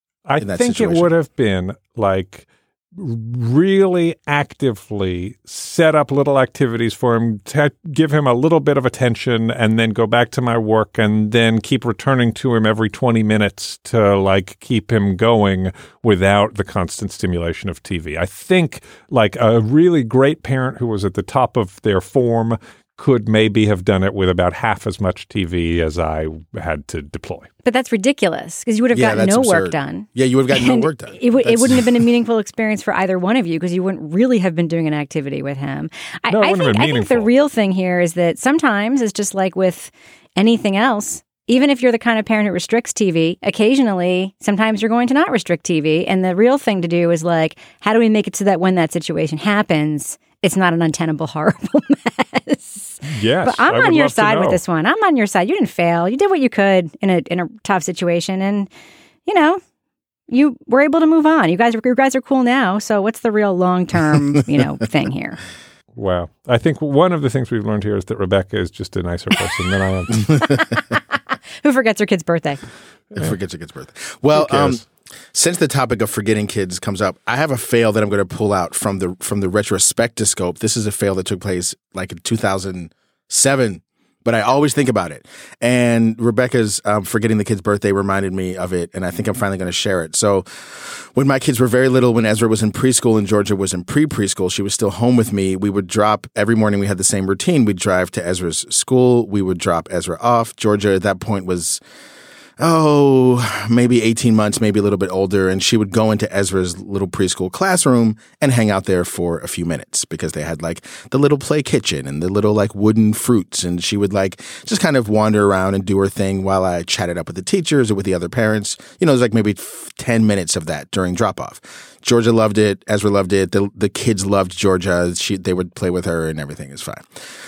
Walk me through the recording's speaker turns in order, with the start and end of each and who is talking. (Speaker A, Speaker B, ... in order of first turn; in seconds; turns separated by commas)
Speaker A: 0.3-27.5, Speaker B: 0.4-1.1, Speaker C: 27.6-58.7, Speaker B: 28.9-32.0, Speaker A: 36.3-37.3, Speaker A: 53.0-54.6, Speaker C: 59.2-59.6, Speaker C: 60.3-65.4, Speaker A: 66.0-70.4, Speaker C: 70.4-70.9, Speaker C: 71.6-72.6, Speaker B: 73.1-101.8, Speaker A: 74.3-74.8, Speaker B: 102.6-127.2